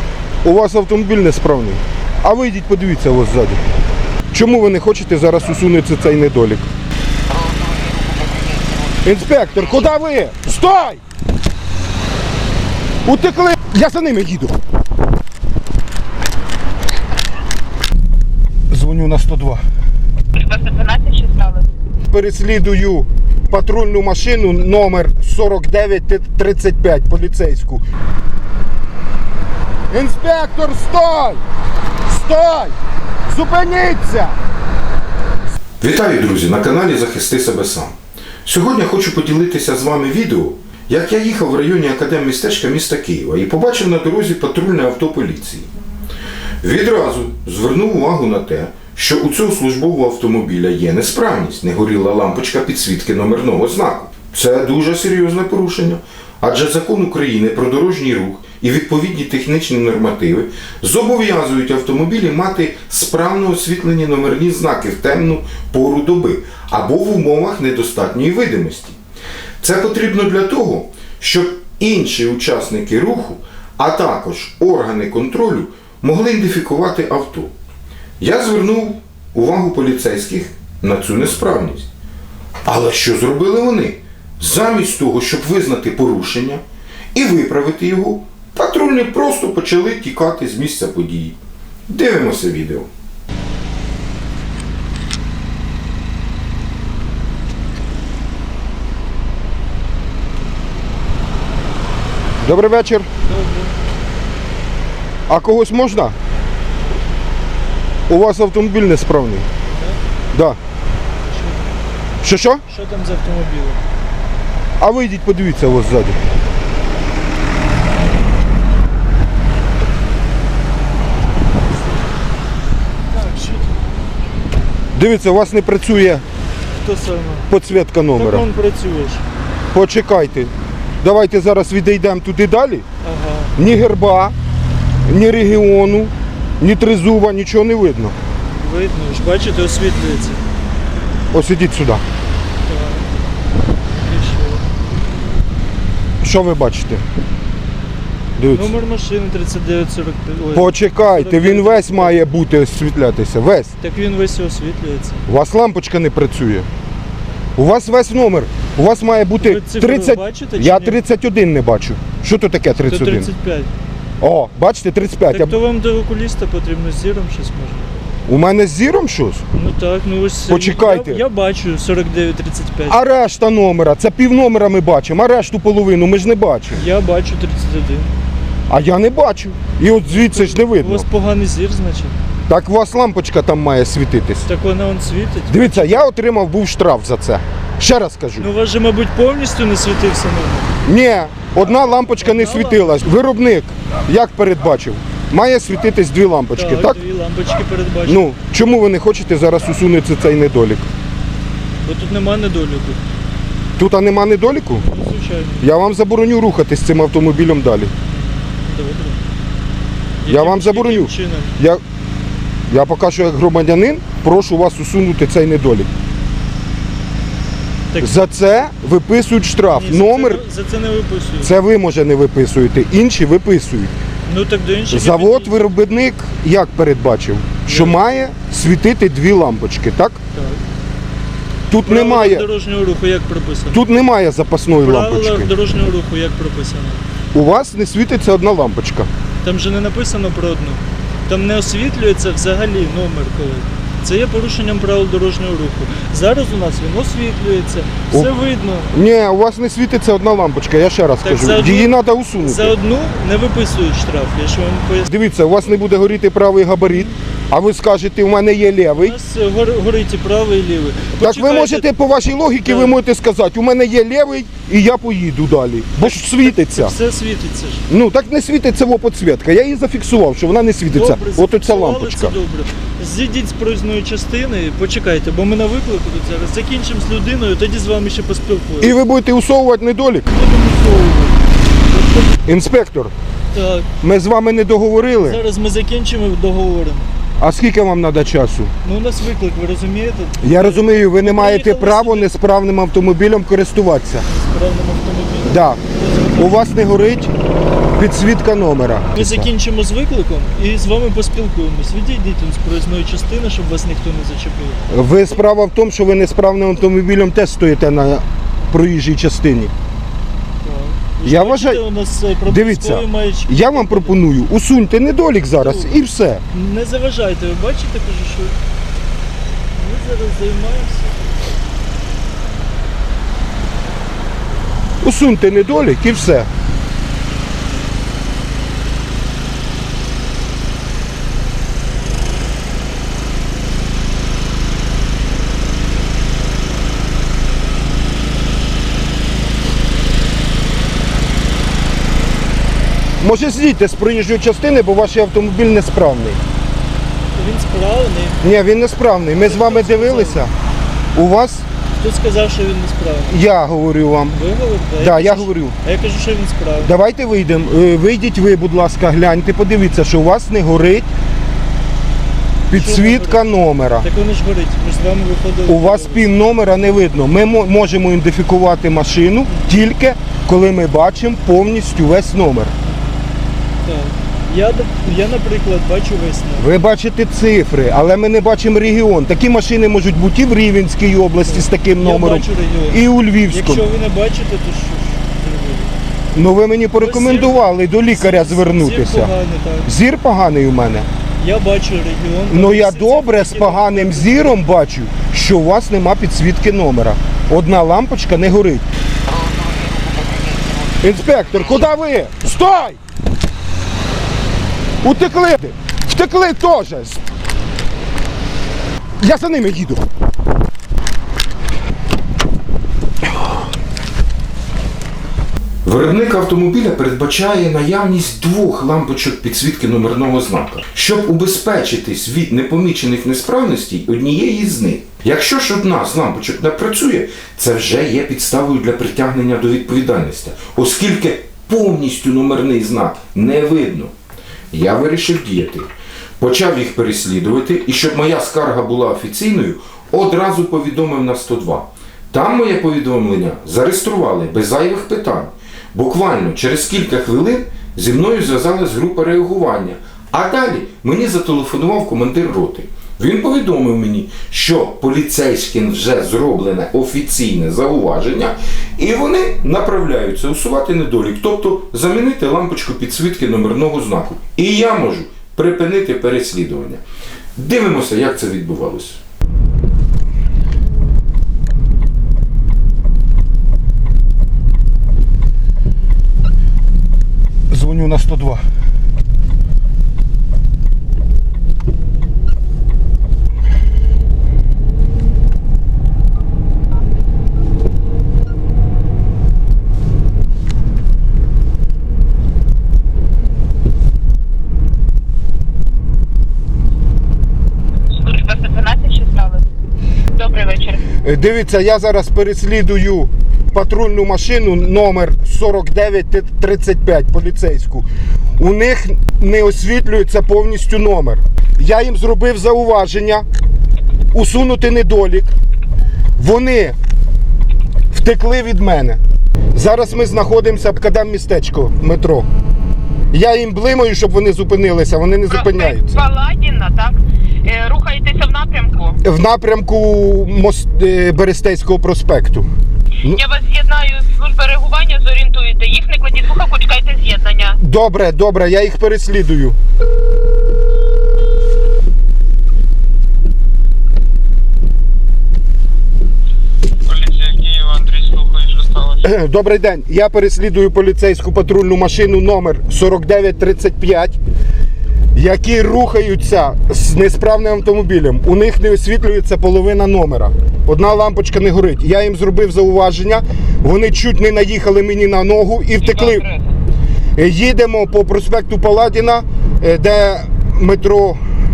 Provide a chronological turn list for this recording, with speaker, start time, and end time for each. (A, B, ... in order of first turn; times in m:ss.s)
0:00.4-0:03.6 A
0:04.3-0:06.7 A
0:07.3-0:08.9 B
0:09.0-0:11.0 A
0:13.0-0:14.6 A
0:18.7-0:19.6 A
0:20.3-0:21.6 C
0:22.1-0:27.8 A
0:29.9-0:31.4 A
0:32.1-0:32.8 A
0:33.3-0:34.4 A
0:35.8-0:45.7 D
0:46.6-1:09.0 D
1:09.6-1:17.5 D
1:18.2-1:21.9 D
1:22.6-1:26.6 D
1:27.1-1:31.4 D
1:31.9-1:32.9 D
1:42.4-1:43.1 A
1:43.2-1:43.8 E
1:45.3-1:46.1 A
1:48.1-1:49.5 A
1:49.7-1:50.0 E
1:51.2-1:51.7 E
1:52.2-1:52.6 A
1:52.6-1:53.8 E
1:54.8-1:56.2 A
2:03.1-2:03.8 E
2:04.9-2:06.2 A
2:06.8-2:07.5 E
2:07.5-2:08.4 A
2:08.1-2:09.2 E
2:09.7-2:12.8 A
2:13.0-2:13.5 E
2:13.6-2:14.3 A
2:15.0-2:18.2 A
2:18.5-2:20.4 E
2:21.3-2:22.0 A
2:22.6-2:23.0 E
2:24.0-2:24.6 E
2:26.2-2:27.0 A
2:28.4-2:28.7 A
2:28.5-2:32.2 E
2:30.5-2:33.7 A
2:33.8-2:35.2 E
2:35.3-2:36.7 A
2:37.6-2:43.3 A
2:39.4-2:41.0 E
2:42.8-2:43.7 E
2:44.2-2:45.6 A
2:45.3-2:47.9 E
2:48.2-2:49.4 A
2:49.5-2:53.0 E
2:50.5-2:51.2 A
2:52.9-2:56.8 A
2:56.7-2:58.1 E
2:58.7-3:01.1 A
3:00.0-3:02.2 E
3:02.5-3:04.5 A
3:04.4-3:06.0 E
3:05.5-3:08.5 A
3:08.4-3:10.7 E
3:10.8-3:17.0 A
3:12.2-3:12.8 E
3:16.5-3:18.3 E
3:18.0-3:20.9 A
3:21.8-3:23.0 E
3:23.8-3:24.8 A
3:24.8-3:25.7 E
3:25.6-3:27.9 A
3:28.1-3:29.2 E
3:30.2-3:31.5 E
3:30.2-3:31.8 A
3:32.7-3:35.9 A
3:37.9-3:38.2 E
3:38.0-3:40.4 A
3:39.7-3:41.5 E
3:41.4-3:43.9 A
3:44.2-3:45.5 E
3:44.9-3:50.2 A
3:47.6-3:48.0 E
3:50.3-3:50.6 E
3:51.7-3:52.4 A
3:51.8-3:53.8 E
3:53.7-3:55.5 A
3:54.8-3:57.0 E
3:57.3-3:59.1 A
3:59.4-4:08.9 E
4:08.9-4:12.7 A
4:11.2-4:15.1 E
4:15.1-4:19.2 A
4:16.8-4:17.2 E
4:19.0-4:21.9 E
4:21.2-4:26.9 A
4:22.6-4:23.0 E
4:26.0-4:27.8 E
4:27.9-4:32.4 A
4:30.9-4:39.0 E
4:38.8-4:40.3 A
4:40.3-4:42.4 E
4:42.4-4:43.1 A
4:43.5-4:43.9 E
4:44.0-4:45.4 A
4:45.2-4:47.1 E
4:47.4-4:48.7 A
4:48.8-4:52.3 E
4:50.4-4:54.2 A
4:54.2-4:56.7 E
4:55.4-4:55.8 A
4:56.4-4:57.3 A
4:58.0-4:59.5 A
4:59.1-5:05.4 E
5:04.9-5:09.7 A
5:10.6-5:14.2 E
5:11.2-5:11.8 A
5:12.4-5:16.4 A
5:15.6-5:16.0 E
5:16.5-5:18.6 E
5:19.7-5:21.3 E
5:25.0-5:26.5 A
5:43.2-5:46.4 A
5:47.3-5:48.4 E
5:48.4-5:50.5 A
5:49.4-5:50.4 E
5:51.1-5:51.6 A
5:52.0-5:53.4 E
5:53.3-5:54.4 A
5:54.3-5:56.9 E
5:55.0-5:55.8 A
5:56.8-6:01.1 A
6:02.7-6:04.1 A
6:02.7-6:03.4 E
6:04.0-6:06.3 E
6:05.6-6:12.7 A
6:12.8-6:13.2 E
6:13.8-6:16.7 E
6:16.6-6:23.9 A
6:21.4-6:25.9 E
6:26.3-6:29.3 A
6:27.0-6:29.9 E
6:29.8-6:31.1 A
6:31.4-6:34.6 E
6:32.5-6:38.8 A
6:39.3-6:40.9 B
6:41.0-6:43.0 A
6:45.0-6:47.2 A
6:49.2-6:50.0 A
6:55.8-7:14.1 D
7:14.7-7:15.9 D
7:16.4-7:47.0 D
7:47.6-7:49.2 D
7:57.7-7:58.6 A
8:18.1-8:19.6 C
8:20.3-8:21.0 C
8:21.2-8:28.1 A
8:28.6-8:33.4 A
8:34.3-8:35.5 A
8:36.4-8:37.0 A
8:38.1-8:39.2 A
8:39.7-8:42.5 A
8:43.3-8:46.2 A
8:45.5-8:49.2 C
8:49.2-8:52.7 A
8:53.3-8:57.8 C
8:57.8-8:59.8 A
9:07.0-9:09.2 B
9:09.2-9:14.4 A
9:15.3-9:26.4 A
9:27.4-9:31.4 A